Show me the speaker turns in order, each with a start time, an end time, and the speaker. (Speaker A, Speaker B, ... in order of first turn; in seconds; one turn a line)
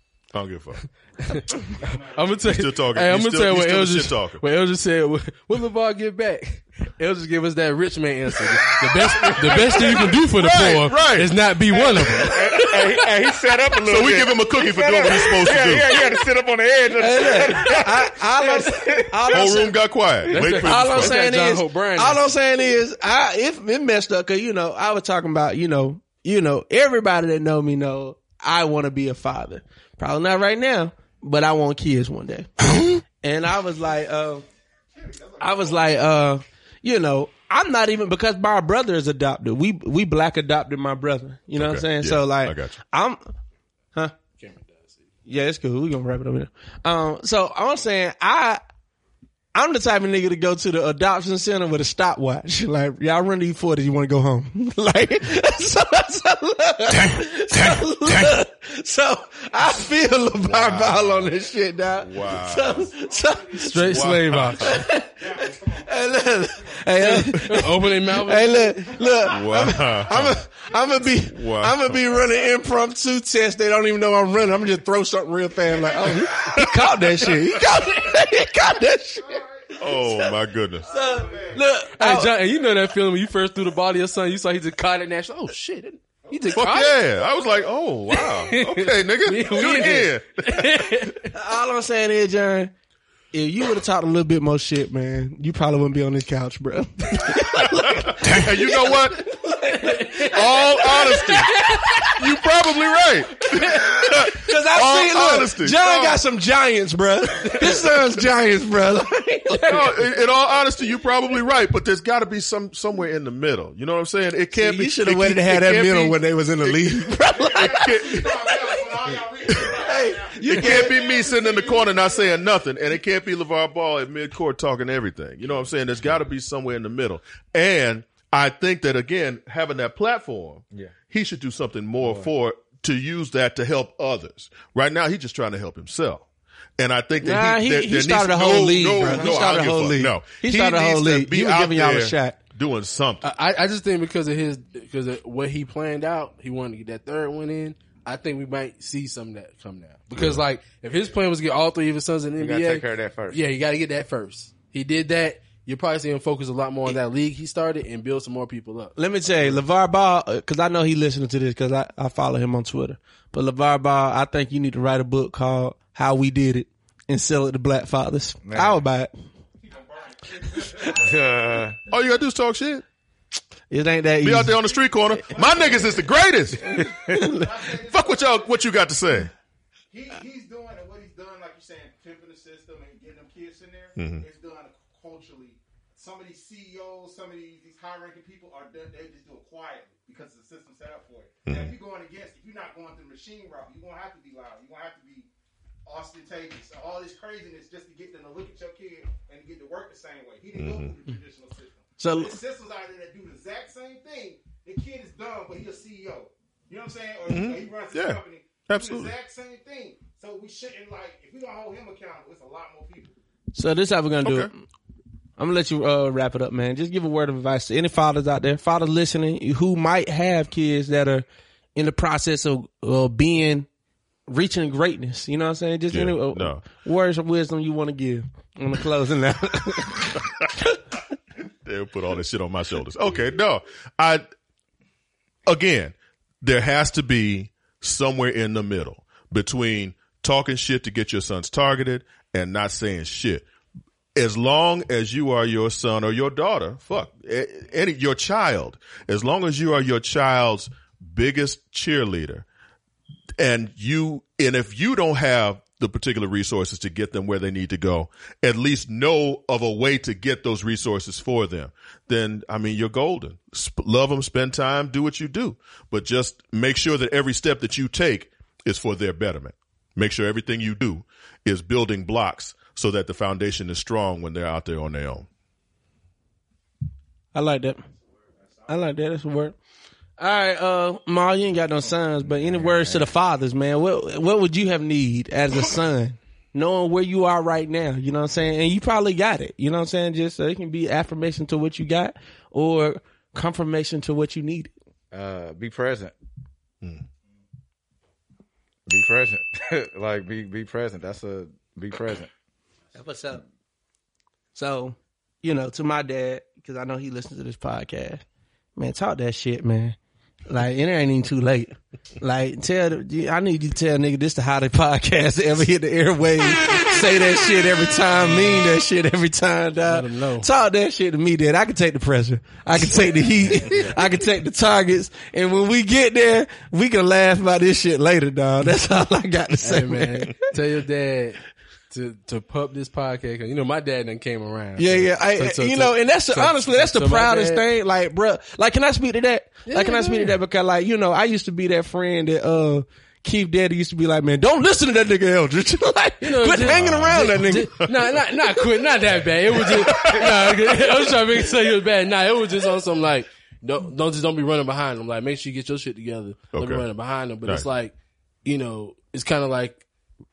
Speaker A: 0.3-0.9
Speaker B: 1.2-12.7
Speaker C: 1.8-2.4
Speaker A: 2.4-4.4
Speaker A: 9.1-11.3
Speaker A: 12.1-12.3
Speaker D: 12.2-19.6
Speaker A: 13.8-16.0
Speaker E: 16.9-19.8
Speaker A: 19.3-21.1
Speaker B: 20.3-22.3
Speaker E: 20.3-34.4
Speaker C: 34.9-36.3
Speaker E: 35.4-43.3
Speaker A: 41.5-42.8
Speaker B: 44.4-45.0
Speaker E: 45.3-48.6
Speaker E: 49.5-64.0
Speaker A: 60.5-61.3
Speaker A: 62.0-62.8
Speaker C: 62.8-63.9
Speaker B: 63.5-64.8
Speaker A: 63.9-64.8
Speaker E: 64.6-80.3
Speaker C: 64.7-66.8
Speaker B: 67.0-68.9
Speaker C: 68.8-71.2
Speaker A: 69.2-70.4
Speaker A: 71.3-72.0
Speaker C: 76.0-76.5
Speaker A: 76.5-77.0
Speaker C: 79.2-79.8
Speaker A: 79.8-80.9
Speaker C: 80.8-81.7
Speaker E: 80.8-82.3
Speaker B: 81.9-87.0
Speaker C: 86.3-86.6
Speaker A: 86.5-90.7
Speaker B: 88.1-91.3
Speaker E: 91.3-92.7
Speaker E: 93.3-102.2
Speaker A: 97.8-99.3
Speaker B: 99.7-100.4
Speaker A: 100.2-101.5
Speaker B: 101.0-101.4
Speaker A: 102.2-106.2
Speaker E: 103.5-110.1
Speaker A: 109.7-117.0
Speaker E: 114.5-117.9
Speaker C: 117.3-122.5
Speaker A: 117.6-118.4
Speaker E: 119.6-121.0
Speaker A: 120.5-136.2
Speaker D: 132.0-132.3
Speaker A: 136.8-143.3
Speaker E: 137.2-142.4
Speaker B: 143.2-158.9
Speaker A: 150.1-150.4
Speaker D: 152.4-153.4
Speaker E: 159.0-169.1
Speaker D: 168.4-168.8
Speaker C: 169.6-171.3
Speaker E: 170.5-170.9
Speaker D: 170.9-171.8
Speaker A: 171.9-172.8
Speaker E: 173.7-174.5
Speaker A: 174.2-176.7
Speaker C: 175.3-175.9
Speaker E: 176.7-177.7
Speaker C: 176.7-178.4
Speaker D: 176.8-177.1
Speaker A: 177.8-179.3
Speaker C: 179.9-195.3
Speaker A: 184.0-184.2
Speaker A: 191.4-191.7
Speaker C: 195.8-213.1
Speaker A: 200.5-200.9
Speaker E: 202.0-202.4
Speaker A: 207.3-209.1
Speaker E: 213.5-214.5
Speaker A: 214.2-214.5
Speaker E: 215.4-223.7
Speaker E: 224.3-230.6
Speaker A: 225.9-226.8
Speaker A: 231.5-234.2
Speaker A: 235.4-243.4
Speaker A: 244.2-252.4
Speaker A: 253.4-275.3
Speaker E: 277.3-277.8
Speaker E: 278.7-279.5
Speaker E: 280.2-294.7
Speaker D: 282.5-283.1
Speaker D: 295.1-296.1
Speaker D: 298.9-302.3
Speaker E: 302.9-303.4
Speaker E: 304.5-308.2
Speaker E: 308.8-309.9
Speaker E: 310.5-330.5
Speaker B: 319.8-320.5
Speaker B: 329.6-337.6
Speaker E: 334.8-347.7
Speaker B: 339.6-340.3
Speaker B: 346.2-357.9
Speaker A: 346.5-347.9
Speaker A: 349.6-350.6
Speaker A: 356.5-356.9
Speaker B: 358.4-359.8